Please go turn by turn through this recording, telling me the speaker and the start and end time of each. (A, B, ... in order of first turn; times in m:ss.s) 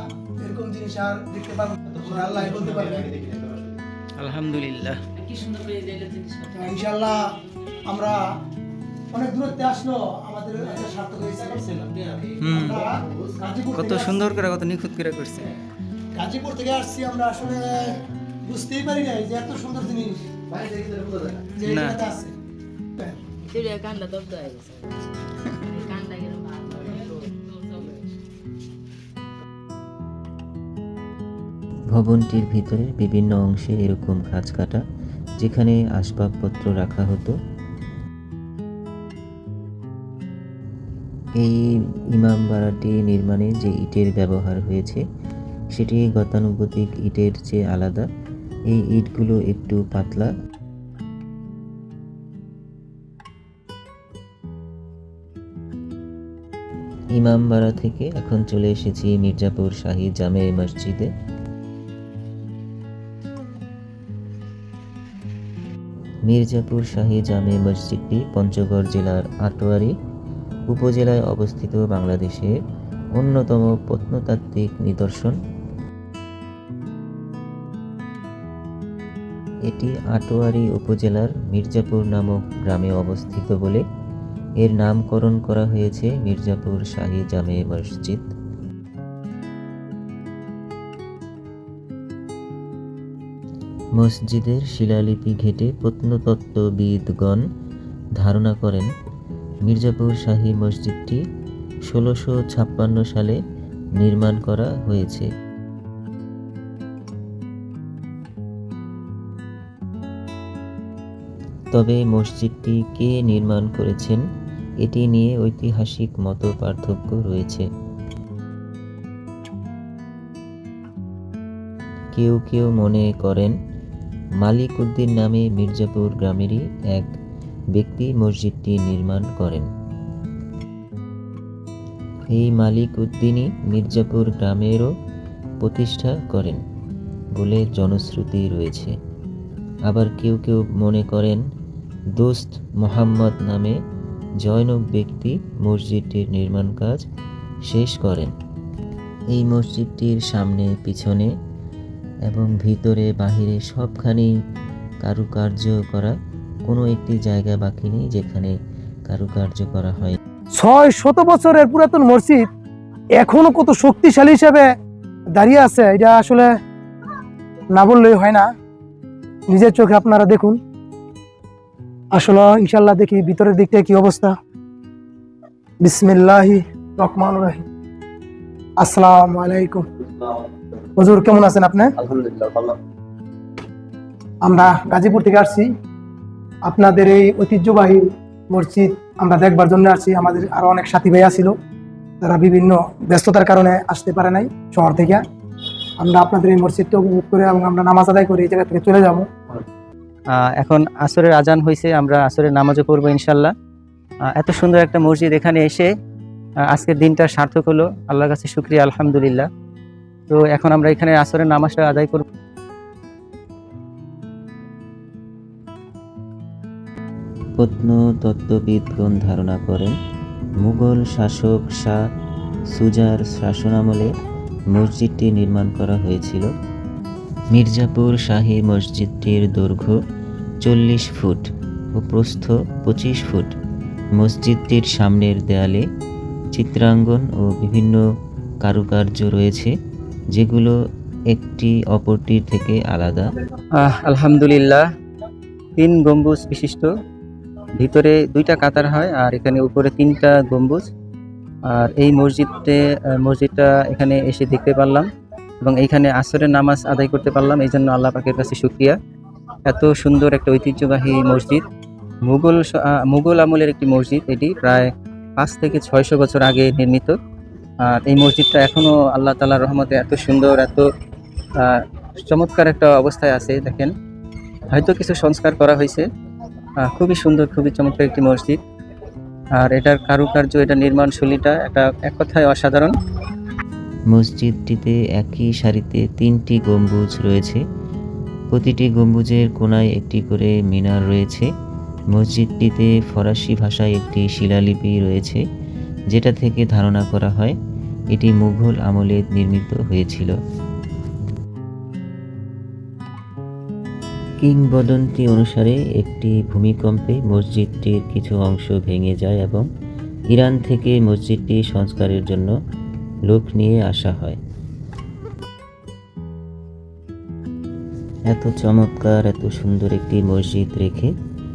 0:00.4-0:03.2 A
0:03.2-0:03.7 B
0:04.2-0:05.2 C
0:06.5-0:07.2 A
0:07.9-0:08.2 A
0:09.1-0:14.4 A
0:12.4-0:12.8 C
0:13.8-0:15.5 C
0:16.2-0:20.2 A
0:20.5-0:21.5 B
0:21.5-0:22.3 A
0:21.7-0:22.0 C
0:23.5-0:24.9 B
0:25.7-0:28.0 B
0:31.9-0:34.8 D
0:35.4-0:37.4 D
0:41.4-0:45.0 D
0:45.8-0:48.0 D
0:48.7-0:50.3 D
0:57.2-1:01.1 D
1:06.3-1:09.9 D
1:10.7-1:12.5 D
1:13.2-1:15.4 D
1:19.7-1:23.8 D
1:24.6-1:28.3 D
1:34.0-1:37.4 D
1:38.2-1:38.9 D
1:39.7-1:41.2 D
1:41.9-1:43.4 D
1:44.0-1:45.3 D
1:51.7-1:54.2 D
1:54.8-1:57.7 D
2:02.2-2:03.5 D
2:04.4-2:07.1 D
2:07.8-2:09.7 D
2:12.3-2:14.9 D
2:15.6-2:16.6 D
2:17.4-2:18.9 D
2:19.9-2:21.4 D
2:22.2-2:23.8 D
2:24.4-2:27.0 D
2:27.7-2:28.3 D
2:29.3-2:31.3 D
2:32.3-2:34.3 D
2:35.0-2:38.6 D
2:39.1-2:40.2 D
2:40.6-2:42.5 A
2:43.2-2:44.7 A
2:45.3-2:46.5 A
2:47.7-2:48.5 A
2:49.5-2:50.6 A
2:52.1-2:54.4 A
2:55.8-2:57.6 A
2:58.8-2:59.8 A
3:01.0-3:01.9 A
3:02.2-3:02.7 B
3:04.4-3:05.7 A
3:06.7-3:11.6 A
3:12.2-3:15.2 A
3:16.0-3:19.3 A
3:20.3-3:23.5 C
3:24.3-3:25.9 C
3:26.7-3:29.5 C
3:30.3-3:32.2 C
3:37.6-3:40.0 D
3:40.6-3:42.0 D
3:42.7-3:44.1 D
3:44.7-3:46.5 D
3:47.5-3:50.0 D
3:50.6-3:53.5 D
3:54.2-3:55.8 D
3:56.5-3:58.0 D
3:58.6-3:59.7 D
4:00.3-4:00.8 D
4:01.3-4:03.3 D
4:03.8-4:04.8 C
4:05.8-4:06.9 C
4:07.8-4:10.9 C
4:11.7-4:15.1 C
4:15.6-4:19.0 C
4:19.7-4:21.6 C
4:22.2-4:27.2 C
4:27.8-4:30.9 C
4:31.6-4:33.9 C
4:34.7-4:36.1 C
4:36.8-4:38.6 C
4:39.6-4:43.0 C
4:44.1-4:47.6 D
4:48.5-4:51.5 D
4:52.1-4:55.4 D
4:56.1-4:57.6 D
4:58.1-5:00.4 D
5:04.4-5:09.7 D
5:10.3-5:12.5 D
5:13.3-5:14.4 D
5:18.3-5:21.1 D